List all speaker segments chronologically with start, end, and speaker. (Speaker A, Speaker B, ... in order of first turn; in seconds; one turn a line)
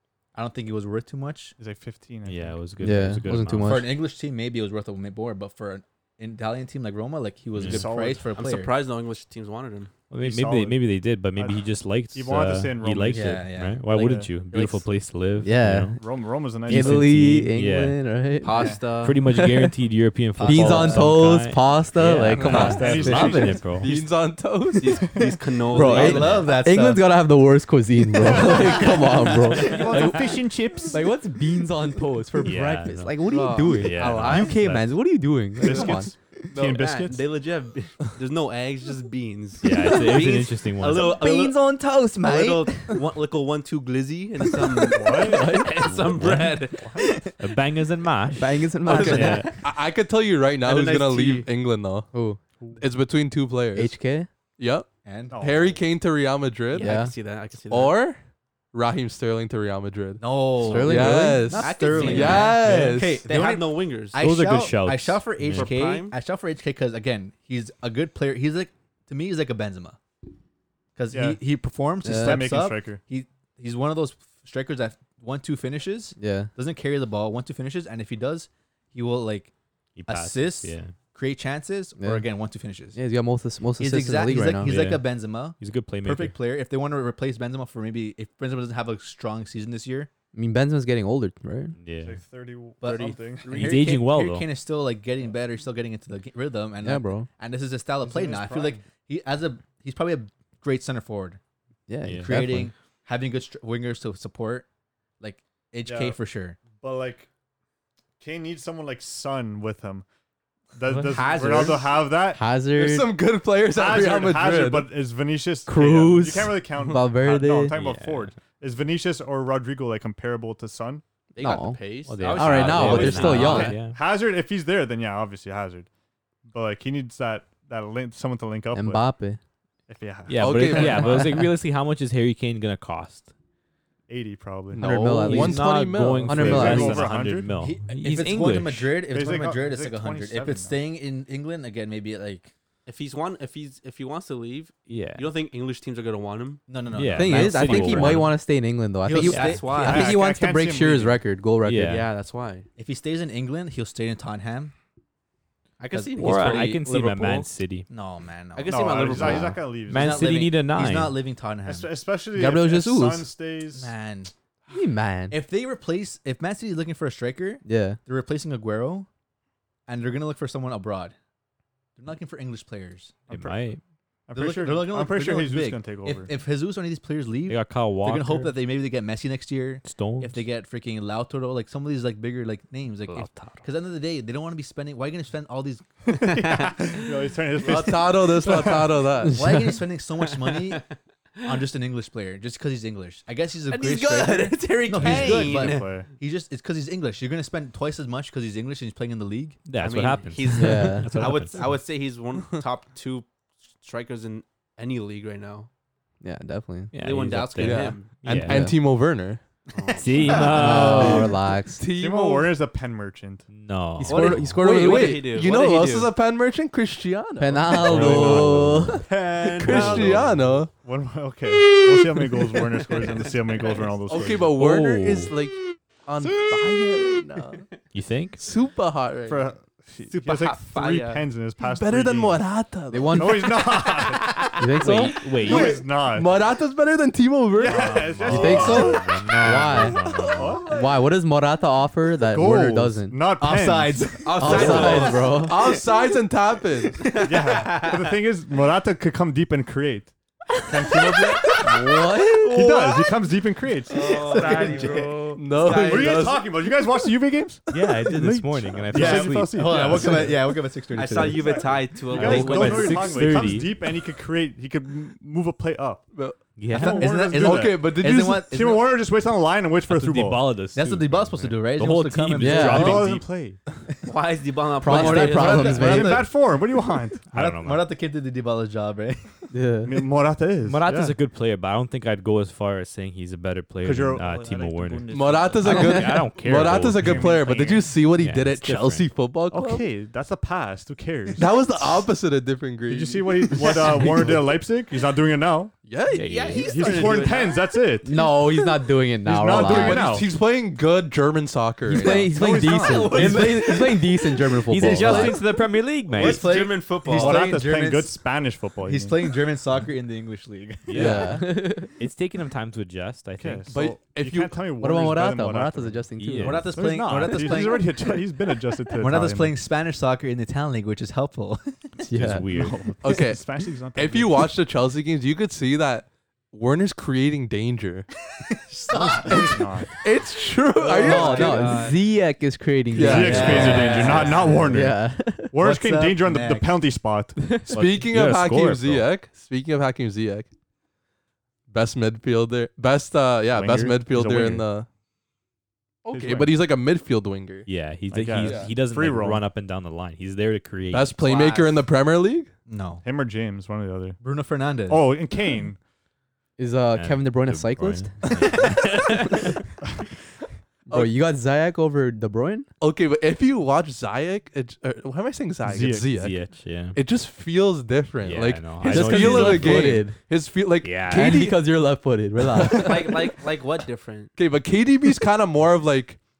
Speaker A: 0.3-1.6
Speaker B: 1.6-2.6
Speaker C: 2.2-3.9
Speaker D: 2.8-3.9
Speaker A: 3.6-8.7
Speaker C: 7.5-7.8
Speaker B: 7.6-8.3
Speaker E: 8.3-9.9
Speaker C: 10.1-16.0
Speaker B: 10.2-10.8
Speaker B: 11.3-14.3
Speaker A: 13.1-14.8
Speaker D: 15.4-16.0
Speaker B: 15.9-17.2
Speaker D: 16.6-19.7
Speaker C: 16.6-18.1
Speaker E: 18.4-19.2
Speaker C: 19.0-23.9
Speaker D: 20.4-23.6
Speaker A: 20.4-21.0
Speaker B: 22.3-24.0
Speaker F: 23.8-25.1
Speaker E: 24.7-26.6
Speaker D: 25.7-30.1
Speaker A: 25.7-27.0
Speaker C: 26.1-26.5
Speaker B: 28.1-31.1
Speaker E: 28.6-30.2
Speaker C: 29.6-30.1
Speaker D: 30.9-36.1
Speaker C: 32.4-34.9
Speaker E: 33.2-34.6
Speaker B: 35.6-37.3
Speaker F: 36.5-36.8
Speaker E: 36.5-47.3
Speaker C: 39.6-41.2
Speaker D: 41.1-43.0
Speaker D: 44.6-45.7
Speaker B: 44.9-45.6
Speaker C: 45.8-46.6
Speaker C: 47.4-49.5
Speaker D: 48.3-49.5
Speaker F: 48.9-52.1
Speaker A: 48.9-49.5
Speaker E: 49.1-49.5
Speaker E: 50.6-51.5
Speaker D: 52.1-52.4
Speaker F: 52.8-54.0
Speaker D: 53.8-54.3
Speaker F: 54.6-56.9
Speaker A: 55.0-55.5
Speaker B: 55.3-55.8
Speaker E: 56.7-58.0
Speaker D: 56.8-57.1
Speaker F: 57.7-58.2
Speaker F: 58.7-60.2
Speaker A: 60.2-70.0
Speaker D: 60.6-62.5
Speaker F: 60.7-63.2
Speaker E: 61.5-62.7
Speaker B: 62.7-63.0
Speaker E: 63.2-64.2
Speaker C: 64.2-65.7
Speaker E: 65.5-66.2
Speaker A: 71.0-79.5
Speaker B: 71.1-71.4
Speaker D: 72.0-72.4
Speaker B: 72.0-73.0
Speaker D: 76.2-76.5
Speaker C: 80.0-80.9
Speaker A: 80.0-83.0
Speaker D: 82.0-82.2
Speaker D: 82.9-84.7
Speaker A: 83.8-90.1
Speaker C: 84.6-85.0
Speaker C: 85.6-86.3
Speaker D: 90.3-91.7
Speaker C: 91.8-92.2
Speaker B: 92.0-93.6
Speaker A: 92.8-101.4
Speaker E: 92.8-93.9
Speaker C: 93.5-94.5
Speaker D: 96.8-97.3
Speaker B: 98.0-98.8
Speaker D: 101.9-102.7
Speaker C: 102.0-102.3
Speaker A: 102.1-104.7
Speaker A: 105.2-106.6
Speaker B: 105.8-107.3
Speaker B: 108.2-110.1
Speaker B: 110.7-112.4
Speaker E: 110.9-112.0
Speaker D: 112.3-113.1
Speaker F: 112.7-114.9
Speaker B: 113.7-121.0
Speaker D: 115.7-117.8
Speaker C: 117.7-118.3
Speaker E: 121.3-123.8
Speaker D: 121.4-123.8
Speaker C: 122.0-124.0
Speaker B: 122.7-125.9
Speaker B: 126.5-129.1
Speaker D: 128.7-129.4
Speaker B: 129.9-131.5
Speaker C: 130.3-133.3
Speaker F: 130.3-131.2
Speaker B: 134.1-134.9
Speaker F: 134.7-136.9
Speaker D: 134.8-137.1
Speaker C: 135.3-138.9
Speaker B: 136.4-137.5
Speaker A: 137.5-142.5
Speaker B: 139.0-140.8
Speaker E: 142.8-146.6
Speaker C: 144.9-145.3
Speaker A: 146.7-148.3
Speaker C: 146.9-148.3
Speaker D: 147.1-152.0
Speaker A: 149.0-150.2
Speaker E: 149.2-150.1
Speaker C: 149.3-149.6
Speaker B: 149.9-151.2
Speaker C: 151.6-152.1
Speaker E: 151.8-152.7
Speaker A: 152.8-154.7
Speaker E: 155.8-157.5
Speaker A: 155.9-156.7
Speaker C: 156.2-157.9
Speaker A: 157.9-161.9
Speaker E: 158.6-159.6
Speaker B: 158.7-160.3
Speaker C: 159.9-161.2
Speaker B: 161.7-163.9
Speaker D: 162.3-163.3
Speaker A: 163.7-164.3
Speaker D: 164.7-165.4
Speaker A: 165.3-169.1
Speaker D: 167.6-168.0
Speaker A: 169.9-171.1
Speaker A: 171.9-173.2
Speaker B: 173.3-173.6
Speaker C: 173.3-173.8
Speaker B: 174.3-176.3
Speaker A: 174.3-186.0
Speaker C: 177.5-178.5
Speaker C: 179.8-180.4
Speaker C: 183.1-183.6
Speaker B: 186.1-189.1
Speaker E: 186.1-187.1
Speaker F: 187.6-189.4
Speaker D: 189.2-189.8
Speaker A: 189.3-190.8
Speaker E: 190.2-190.8
Speaker A: 191.4-199.7
Speaker E: 193.7-196.0
Speaker B: 195.0-196.1
Speaker C: 199.7-201.7
Speaker E: 199.7-205.7
Speaker D: 200.6-201.3
Speaker A: 201.1-201.7
Speaker D: 206.2-206.9
Speaker C: 206.9-208.7
Speaker E: 206.9-208.2
Speaker F: 207.6-209.4
Speaker D: 208.3-208.8
Speaker E: 209.7-211.2
Speaker C: 209.9-211.3
Speaker F: 210.3-212.6
Speaker D: 210.5-211.8
Speaker B: 211.9-213.5
Speaker C: 213.5-214.5
Speaker D: 214.0-215.2
Speaker E: 214.1-216.1
Speaker F: 214.4-218.5
Speaker D: 217.4-219.0
Speaker B: 217.8-224.6
Speaker C: 217.8-218.8
Speaker E: 219.0-220.2
Speaker F: 219.4-220.7
Speaker E: 222.5-223.9
Speaker F: 224.1-227.6
Speaker C: 224.6-225.3
Speaker E: 227.5-227.8
Speaker C: 227.9-228.4
Speaker F: 228.4-229.5
Speaker B: 229.3-232.4
Speaker E: 230.1-231.3
Speaker F: 231.6-233.6
Speaker D: 232.9-233.6
Speaker B: 233.1-234.4
Speaker E: 233.7-235.0
Speaker D: 234.6-235.2
Speaker C: 234.8-235.8
Speaker B: 235.4-236.3
Speaker F: 235.4-238.8
Speaker B: 237.6-240.7
Speaker C: 237.8-240.6
Speaker D: 238.2-240.0
Speaker E: 239.9-240.9
Speaker D: 240.7-243.2
Speaker B: 242.2-244.9
Speaker A: 243.4-245.1
Speaker E: 244.2-246.1
Speaker D: 244.4-245.6
Speaker F: 244.5-247.1
Speaker E: 247.0-248.1
Speaker B: 247.2-255.1
Speaker E: 250.9-253.1
Speaker D: 251.6-252.5
Speaker E: 253.9-256.5
Speaker A: 254.0-255.1
Speaker F: 255.3-256.4
Speaker B: 255.7-260.5
Speaker C: 257.7-260.2
Speaker A: 258.9-263.0
Speaker E: 260.9-263.4
Speaker B: 261.3-266.1
Speaker C: 262.1-263.8
Speaker F: 266.1-268.5
Speaker C: 266.6-267.1
Speaker B: 266.7-267.9
Speaker A: 266.7-268.9
Speaker B: 268.5-270.6
Speaker C: 269.9-273.2
Speaker A: 270.7-273.2
Speaker D: 272.4-273.1
Speaker B: 272.5-273.6
Speaker E: 274.0-276.0
Speaker D: 274.8-276.3
Speaker A: 274.9-276.4
Speaker B: 274.9-277.3
Speaker C: 277.3-277.9
Speaker A: 277.3-279.5
Speaker D: 279.5-279.9
Speaker B: 279.8-281.1
Speaker C: 280.7-287.4
Speaker B: 283.8-285.0
Speaker E: 284.2-286.2
Speaker F: 285.1-289.8
Speaker B: 286.7-287.9
Speaker C: 288.1-289.1
Speaker B: 289.5-291.5
Speaker F: 291.4-294.5
Speaker B: 292.9-295.7
Speaker F: 295.9-296.6
Speaker C: 296.1-296.9
Speaker E: 296.1-298.3
Speaker B: 296.6-298.1
Speaker D: 298.0-300.2
Speaker B: 299.2-300.3
Speaker F: 299.5-302.3
Speaker D: 301.9-305.4
Speaker B: 302.0-303.7
Speaker E: 302.6-307.6
Speaker C: 304.7-306.5
Speaker A: 304.9-305.4
Speaker A: 306.1-308.3
Speaker B: 307.1-309.2
Speaker A: 308.8-311.2
Speaker C: 310.9-313.7
Speaker F: 310.9-311.4
Speaker D: 310.9-311.9
Speaker B: 313.4-316.1
Speaker F: 313.7-314.6
Speaker D: 314.8-316.8
Speaker C: 316.2-316.7
Speaker A: 316.4-318.1
Speaker B: 316.7-319.6
Speaker A: 319.0-321.8
Speaker D: 322.1-322.5
Speaker C: 322.1-322.8
Speaker B: 322.5-324.4
Speaker F: 323.0-328.1
Speaker A: 328.4-329.7
Speaker B: 328.9-329.9
Speaker F: 329.2-331.8
Speaker E: 330.8-332.0
Speaker D: 331.0-334.0
Speaker F: 332.9-334.4
Speaker B: 332.9-337.6
Speaker E: 333.1-334.8
Speaker A: 333.3-334.6
Speaker D: 334.7-335.5
Speaker A: 335.5-336.7
Speaker C: 337.7-339.1
Speaker F: 337.7-340.5
Speaker F: 341.7-344.9
Speaker B: 343.5-344.7
Speaker F: 346.0-347.7
Speaker B: 346.1-346.6
Speaker C: 347.6-351.1
Speaker B: 348.1-349.4
Speaker F: 348.4-348.7
Speaker F: 350.9-352.5
Speaker E: 351.2-351.7
Speaker A: 352.7-353.0
Speaker B: 353.0-354.2
Speaker A: 354.2-355.1
Speaker B: 354.9-355.8
Speaker D: 356.6-358.3
Speaker C: 356.9-359.3
Speaker D: 359.1-359.3
Speaker F: 360.9-361.1
Speaker D: 360.9-362.7
Speaker F: 362.8-371.8
Speaker B: 365.6-366.1
Speaker C: 366.1-367.0
Speaker C: 368.2-370.1
Speaker D: 368.8-370.2
Speaker C: 370.8-371.4
Speaker D: 371.1-373.1
Speaker E: 372.7-374.3
Speaker F: 374.3-376.2